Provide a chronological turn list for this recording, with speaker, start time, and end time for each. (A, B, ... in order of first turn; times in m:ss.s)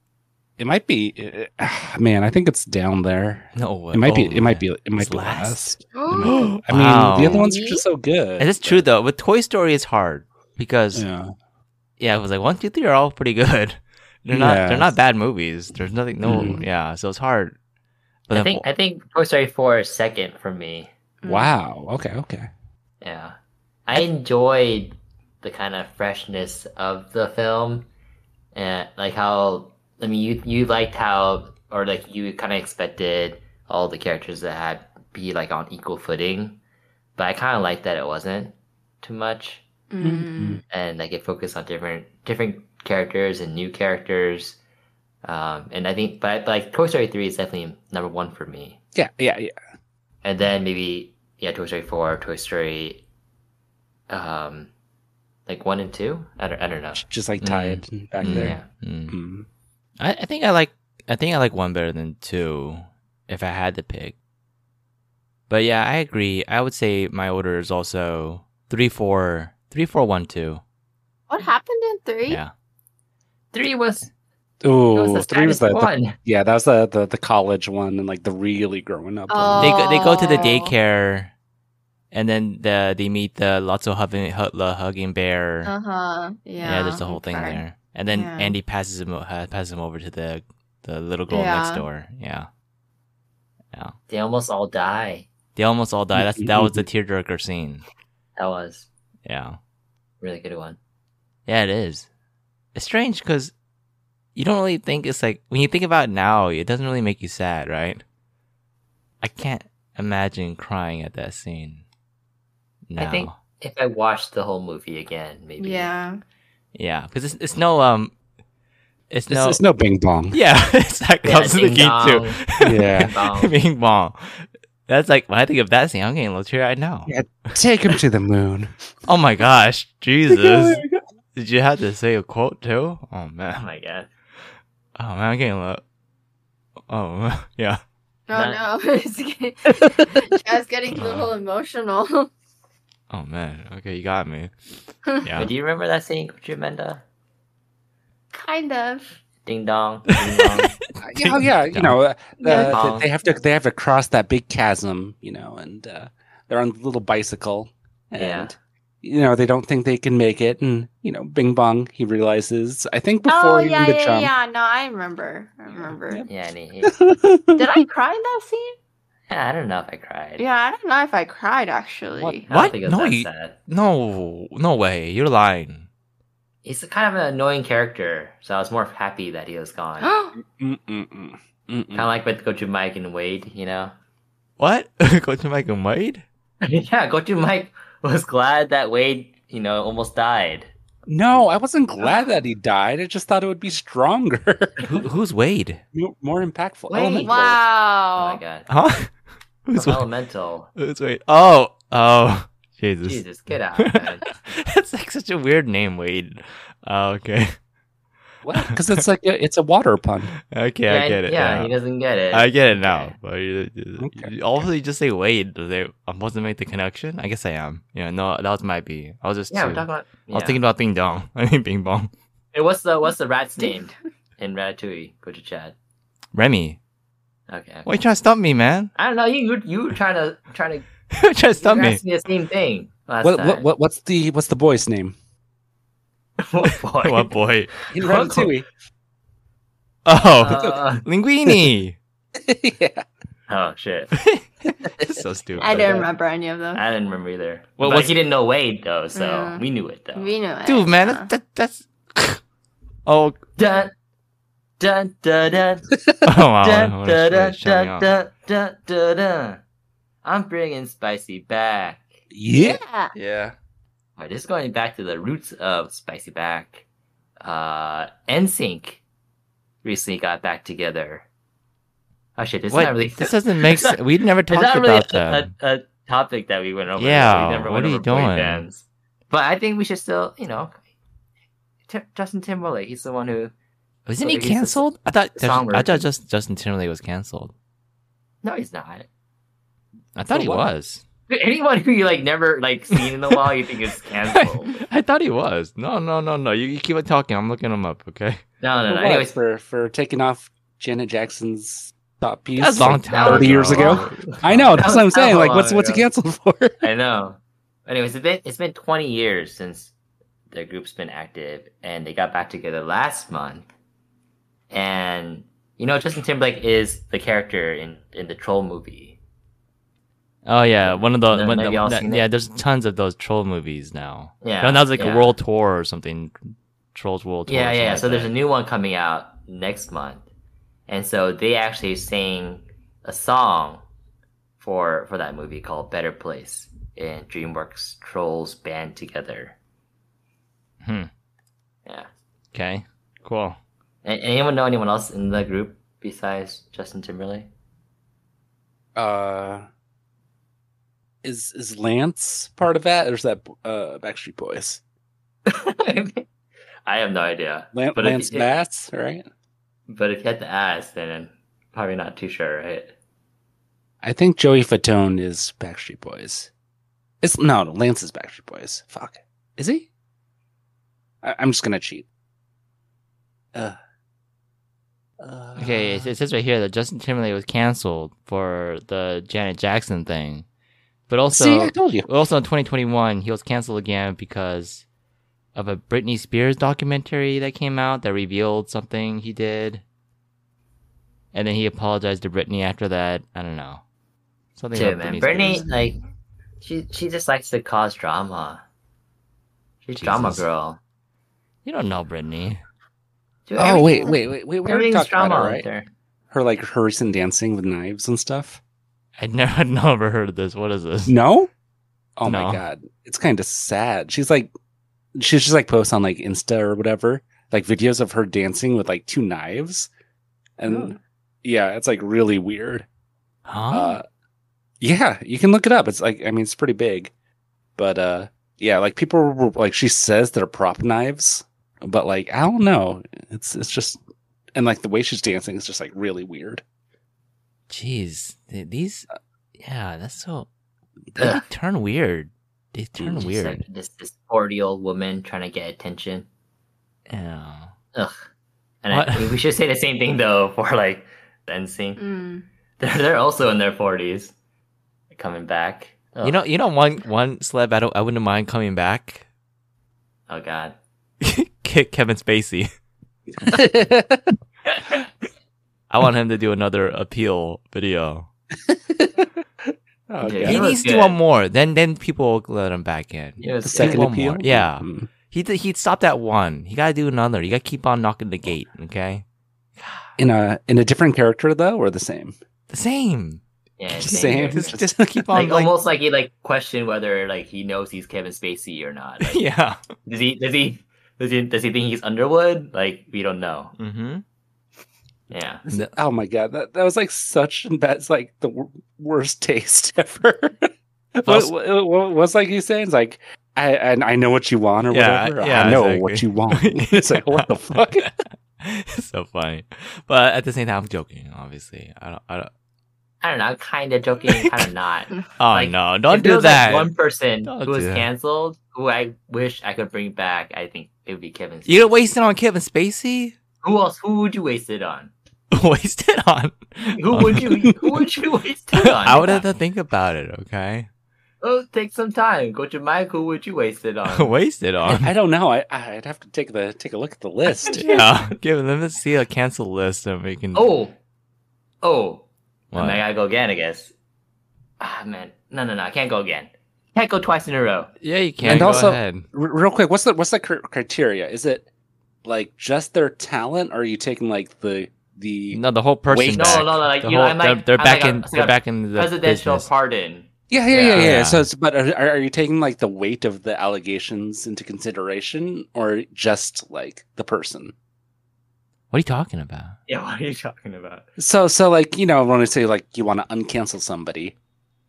0:00.6-0:08.8 A
0:03.6-0:07.4 B
0:05.9-0:06.6 C
0:07.2-0:07.8 C
0:08.4-0:11.0 B
0:10.9-0:11.3 A
0:12.0-0:17.5 B
0:14.3-0:14.9 A
0:16.2-0:16.6 A
0:18.3-0:18.6 B
0:18.3-0:20.9 D
0:21.2-0:21.5 C
0:21.2-0:22.5 A
0:23.0-0:23.4 D
0:23.9-0:27.9 D
0:28.5-0:36.6 D
0:37.2-0:39.6 D
0:39.9-0:40.6 C
0:40.0-0:40.6 A
0:40.7-0:44.6 D
0:45.2-0:48.8 D
0:48.9-0:49.5 A
0:50.2-0:53.0 D
0:54.1-0:54.7 D
0:55.5-0:58.7 D
0:56.9-0:59.5 A
0:58.2-0:59.1 B
1:00.0-1:04.1 B
1:05.5-1:10.6 B
1:11.3-1:12.4 C
1:13.5-1:14.1 D
1:14.6-1:19.9 A
1:14.9-1:16.1 D
1:19.3-1:20.7 C
1:19.6-1:21.3 B
1:22.1-1:25.7 B
1:25.6-1:28.6 C
1:26.6-1:32.5 B
1:31.3-1:31.8 C
1:34.1-1:35.3 D
1:35.6-1:37.8 B
1:36.2-1:36.8 A
1:38.4-1:38.9 D
1:39.2-1:39.6 B
1:40.2-1:40.8 D
1:41.5-1:42.1 B
1:42.7-1:43.5 B
1:44.3-1:48.0 B
1:49.2-1:51.8 B
1:52.9-1:53.4 B
1:53.0-1:55.9 D
1:55.6-1:56.2 C
1:56.7-1:58.1 B
1:59.1-1:59.6 B
1:59.3-2:00.4 A
2:00.3-2:07.1 B
2:01.2-2:03.5 D
2:02.6-2:03.1 A
2:07.1-2:08.7 A
2:09.0-2:10.8 B
2:10.3-2:11.0 A
2:11.3-2:13.6 B
2:13.5-2:14.1 D
2:15.0-2:15.8 B
2:16.9-2:17.8 B
2:18.3-2:22.3 C
2:18.3-2:18.6 D
2:20.9-2:21.3 B
2:23.1-2:24.5 B
2:25.2-2:25.5 B
2:25.4-2:27.0 D
2:28.3-2:29.2 C
2:29.4-2:30.7 D
2:30.3-2:32.0 B
2:31.0-2:44.3 A
2:32.4-2:32.8 C
2:32.4-2:33.1 D
2:38.2-2:38.5 D
2:43.3-2:46.2 C
2:45.8-2:46.3 A
2:46.3-2:46.9 D
2:46.9-2:47.7 A
2:47.6-2:48.8 C
2:49.3-2:50.4 D
2:50.4-2:52.4 C
2:52.4-2:53.5 D
2:52.5-2:55.9 B
2:56.6-3:00.1 D
3:00.0-3:00.4 C
3:00.4-3:02.1 A
3:01.9-3:03.9 D
3:04.6-3:06.2 B
3:06.6-3:10.7 D
3:11.1-3:15.0 A
3:14.8-3:15.8 B
3:15.9-3:17.6 A
3:16.9-3:17.3 D
3:17.2-3:18.4 C
3:18.2-3:18.7 D
3:18.7-3:19.1 B
3:19.6-3:20.1 B
3:19.8-3:20.7 D
3:20.8-3:23.2 B
3:23.0-3:24.4 D
3:23.8-3:27.5 B
3:28.4-3:30.3 A
3:30.5-3:31.7 B
3:30.9-3:33.1 D
3:32.3-3:42.1 B
3:34.0-3:34.6 A
3:39.5-3:40.6 D
3:42.5-3:45.7 D
3:46.3-3:46.8 B
3:47.5-3:47.9 D
3:47.8-3:48.9 B
3:49.0-3:50.8 D
3:51.1-3:52.0 B
3:51.6-3:53.7 D
3:53.2-3:55.1 A
3:56.4-3:57.3 D
3:57.0-3:57.7 B
3:57.9-3:58.5 D
3:57.9-3:58.7 A
4:00.0-4:02.0 B
4:00.4-4:01.0 D
4:02.4-4:03.0 A
4:03.5-4:04.1 D
4:05.0-4:06.0 B
4:05.6-4:06.8 C
4:05.6-4:06.0 D
4:06.7-4:10.3 D
4:07.8-4:08.2 B
4:09.1-4:09.6 C
4:10.1-4:11.3 C
4:10.6-4:12.4 B
4:13.0-4:13.4 B
4:13.6-4:13.9 D
4:14.8-4:15.9 D
4:16.2-4:18.1 B
4:16.6-4:19.6 D
4:20.2-4:22.2 D
4:22.3-4:23.5 A
4:22.5-4:23.1 C
4:24.2-4:26.8 D
4:27.4-4:29.0 D
4:29.8-4:31.2 D
4:32.4-4:34.0 D
4:32.7-4:35.5 B
4:34.5-4:40.8 D
4:37.0-4:38.6 B
4:41.9-4:43.5 D
4:44.1-4:47.5 B
4:44.2-4:44.8 D
4:45.4-4:46.0 D
4:48.4-4:49.1 D
4:50.2-4:51.0 B
4:50.3-4:50.7 A
4:51.3-4:54.7 D
4:54.2-4:58.4 B
4:58.6-4:59.4 D
4:58.9-5:06.8 A
5:02.6-5:04.8 B
5:03.1-5:06.0 D
5:06.8-5:09.9 D
5:10.5-5:13.7 D
5:14.7-5:19.2 D
5:20.4-5:26.4 B
5:20.8-5:22.3 D
5:24.4-5:25.3 D
5:26.9-5:28.3 B
5:27.5-5:30.2 D
5:30.9-5:33.8 D
5:34.6-5:39.5 D
5:40.8-5:41.1 B
5:42.5-5:43.6 B
5:44.0-5:47.5 D
5:49.0-5:49.6 A
5:51.2-5:54.8 A
5:55.4-5:56.2 D
5:56.8-5:58.5 D
5:57.7-5:59.3 A
5:59.9-6:02.9 D
6:04.0-6:06.5 A
6:07.2-6:09.9 A
6:11.2-6:12.0 A
6:15.2-6:16.1 A
6:15.6-6:20.4 B
6:21.1-6:24.8 B
6:21.3-6:22.1 A
6:25.5-6:29.8 B
6:31.3-6:33.8 B
6:34.6-6:35.7 B
6:34.7-6:36.0 D
6:36.6-6:38.6 D
6:39.8-6:40.8 D
6:40.0-6:40.4 B
6:41.6-6:42.6 B
6:43.4-6:45.9 D
6:43.6-6:45.6 A
6:46.3-6:48.6 A
6:49.2-6:51.1 B
6:51.0-6:51.5 A
6:52.2-6:54.5 A
6:52.2-6:52.6 B
6:55.2-6:59.9 A
7:00.6-7:02.8 A
7:00.7-7:00.9 C
7:03.5-7:04.0 B
7:03.7-7:04.0 A
7:04.8-7:07.1 A
7:07.8-7:14.0 A
7:14.5-7:16.6 A
7:17.7-7:20.5 B
7:21.2-7:23.6 B
7:23.1-7:26.2 D
7:27.1-7:27.7 B
7:28.8-7:32.0 D
7:28.9-7:29.4 B
7:32.0-7:32.4 C
7:32.8-7:34.3 D
7:35.1-7:36.4 D
7:36.2-7:39.2 B
7:40.3-7:40.8 D
7:41.2-7:42.7 B
7:43.5-7:44.2 A
7:45.9-7:48.3 B
7:48.7-7:49.3 A
7:50.1-7:50.7 A
7:50.2-7:51.2 D
7:50.4-7:59.2 B
7:53.4-7:54.1 D
7:53.6-7:55.1 A
8:00.2-8:02.4 A
8:02.7-8:03.4 B
8:03.8-8:04.8 D
8:03.9-8:05.3 A
8:04.0-8:05.7 B
8:05.3-8:09.4 D
8:09.2-8:09.8 B
8:10.0-8:13.7 D
8:13.8-8:14.2 B
8:15.3-8:15.6 D
8:15.7-8:28.1 A
8:21.2-8:21.5 B
8:24.9-8:32.5 B
8:33.2-8:42.1 D
8:34.3-8:34.7 B
8:35.4-8:36.9 B
8:37.4-8:38.1 B
8:41.6-8:43.3 B
8:43.6-8:45.1 D
8:45.5-8:47.7 B
8:46.9-8:49.4 D
8:48.7-8:50.9 B
8:51.4-8:54.3 D
8:54.1-8:55.1 B
8:54.9-8:57.8 A
8:57.7-8:58.0 D
8:57.7-9:00.7 B
9:00.5-9:00.9 D
9:01.8-9:03.9 D
9:02.7-9:03.0 B
9:04.8-9:07.9 D
9:08.0-9:09.2 B
9:08.4-9:11.7 A
9:12.2-9:16.6 A
9:15.5-9:19.7 B
9:16.3-9:21.1 D
9:20.5-9:27.7 A
9:20.7-9:21.4 B
9:28.9-9:29.8 B
9:29.9-9:31.1 D
9:31.2-9:34.3 A